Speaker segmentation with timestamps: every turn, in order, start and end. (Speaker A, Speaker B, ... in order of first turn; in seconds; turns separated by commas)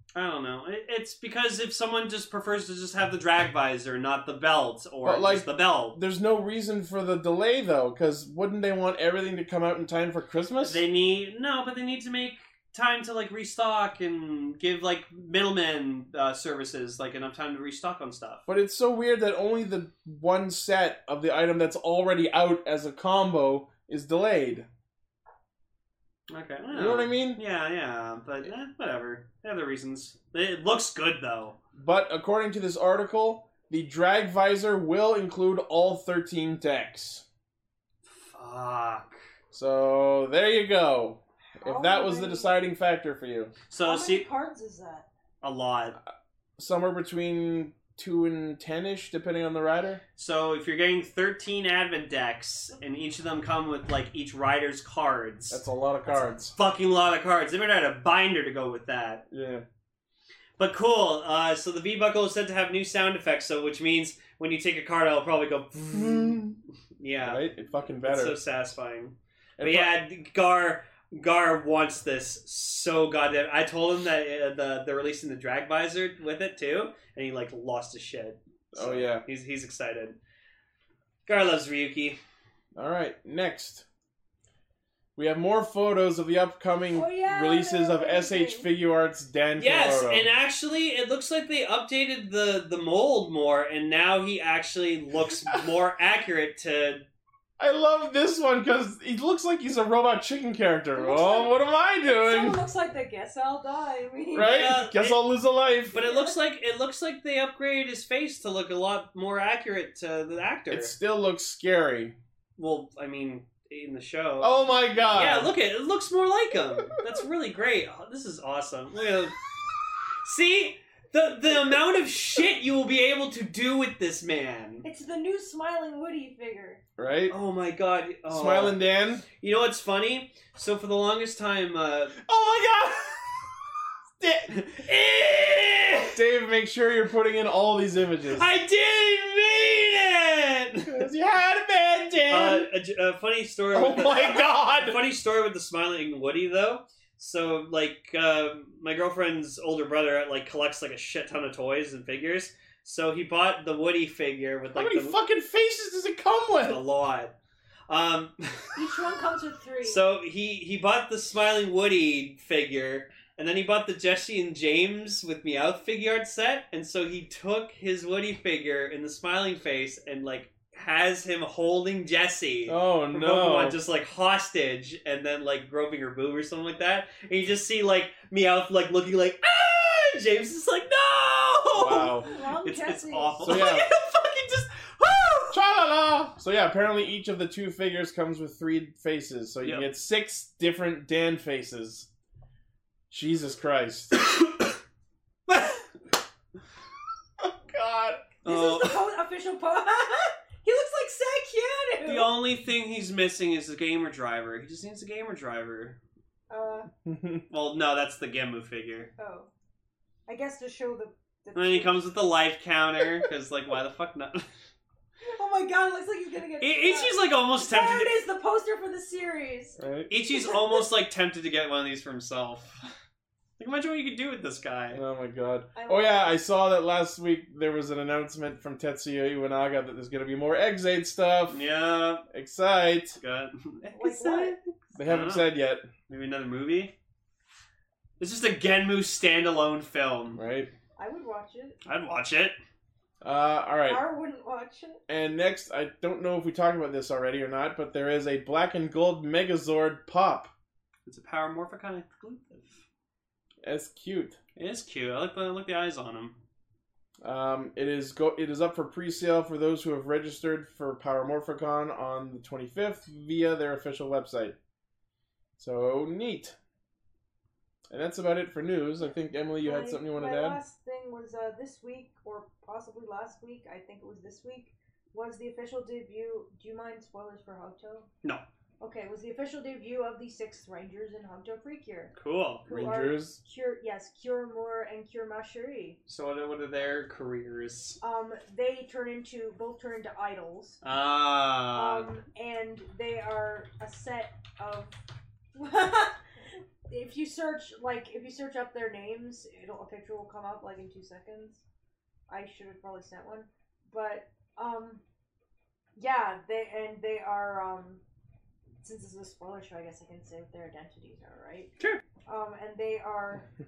Speaker A: 0.1-6.0, Speaker B: 5.0-10.8, Speaker A: 10.6-18.4, Speaker B: 18.5-24.7, Speaker A: 26.3-31.6, Speaker B: 26.7-27.4, Speaker B: 31.8-37.2, Speaker A: 38.0-39.2, Speaker B: 39.5-43.5, Speaker C: 41.4-42.5, Speaker A: 43.7-44.2, Speaker C: 43.8-45.1, Speaker A: 45.4-46.0, Speaker B: 46.6-50.0, Speaker A: 50.2-55.6, Speaker B: 55.5-56.5, Speaker A: 56.5-59.2, Speaker B: 59.3-59.6, Speaker A: 60.6-67.4, Speaker B: 65.9-66.6, Speaker B: 67.2-68.3, Speaker A: 68.0-80.2, Speaker B: 69.6-70.0, Speaker B: 78.7-79.2, Speaker A: 81.3-82.2, Speaker B: 82.7-83.8, Speaker B: 85.2-90.3, Speaker C: 86.9-88.7, Speaker A: 89.5-97.0, Speaker B: 97.6-102.6, Speaker C: 100.9-104.7, Speaker B: 104.3-106.0, Speaker A: 104.3-105.2, Speaker C: 105.9-106.3, Speaker A: 105.9-110.9, Speaker B: 110.7-112.2, Speaker A: 112.6-119.4, Speaker B: 114.4-115.5, Speaker B: 116.7-117.2, Speaker A: 120.2-124.8, Speaker C: 124.8-126.8, Speaker B: 127.0-127.3, Speaker A: 127.3-132.2, Speaker B: 128.3-129.2, Speaker B: 132.2-133.6, Speaker B: 134.2-134.5, Speaker A: 134.5-136.2, Speaker B: 136.1-138.5, Speaker A: 138.3-140.9, Speaker B: 140.8-142.7, Speaker A: 142.3-155.2, Speaker B: 143.7-145.0, Speaker B: 154.7-156.8, Speaker A: 156.6-157.3, Speaker A: 157.9-158.8, Speaker C: 158.7-160.0, Speaker A: 159.8-185.6, Speaker B: 172.7-173.8, Speaker B: 181.7-182.3, Speaker C: 181.8-183.7, Speaker B: 183.4-183.9, Speaker B: 185.5-192.1, Speaker B: 193.1-194.1, Speaker A: 194.2-194.8, Speaker A: 195.5-195.8, Speaker B: 197.4-198.3, Speaker A: 198.4-199.0, Speaker C: 198.4-202.3, Speaker A: 202.0-206.0, Speaker C: 206.5-206.9, Speaker B: 207.0-207.4, Speaker A: 207.5-209.1, Speaker C: 209.2-209.5, Speaker C: 210.3-212.0, Speaker A: 211.5-214.5, Speaker C: 215.2-220.7, Speaker A: 216.6-218.2, Speaker B: 219.8-220.1, Speaker A: 220.1-222.9, Speaker A: 223.6-225.0, Speaker B: 224.9-231.6, Speaker C: 225.7-226.4, Speaker A: 231.5-232.2, Speaker B: 232.3-233.2, Speaker A: 233.2-235.5, Speaker C: 233.9-234.6, Speaker B: 234.9-235.8, Speaker A: 236.1-236.9, Speaker A: 238.2-240.4, Speaker B: 240.3-240.7, Speaker C: 241.0-241.8, Speaker A: 241.8-242.6, Speaker B: 243.2-244.0, Speaker C: 243.8-245.0, Speaker B: 245.1-250.5, Speaker A: 251.1-252.8, Speaker B: 253.6-254.4, Speaker A: 254.6-256.4, Speaker B: 257.2-264.6, Speaker B: 265.6-266.6, Speaker B: 267.9-270.6, Speaker C: 269.6-278.1, Speaker C: 278.8-282.1, Speaker A: 282.1-282.7, Speaker B: 282.7-283.4, Speaker C: 282.7-286.0, Speaker A: 286.1-288.0, Speaker C: 288.0-290.8, Speaker A: 290.8-292.1, Speaker C: 291.7-294.9, Speaker C: 295.5-296.2, Speaker C: 296.9-301.6, Speaker C: 302.3-305.0, Speaker C: 305.9-308.0, Speaker C: 308.8-311.7, Speaker C: 312.3-313.5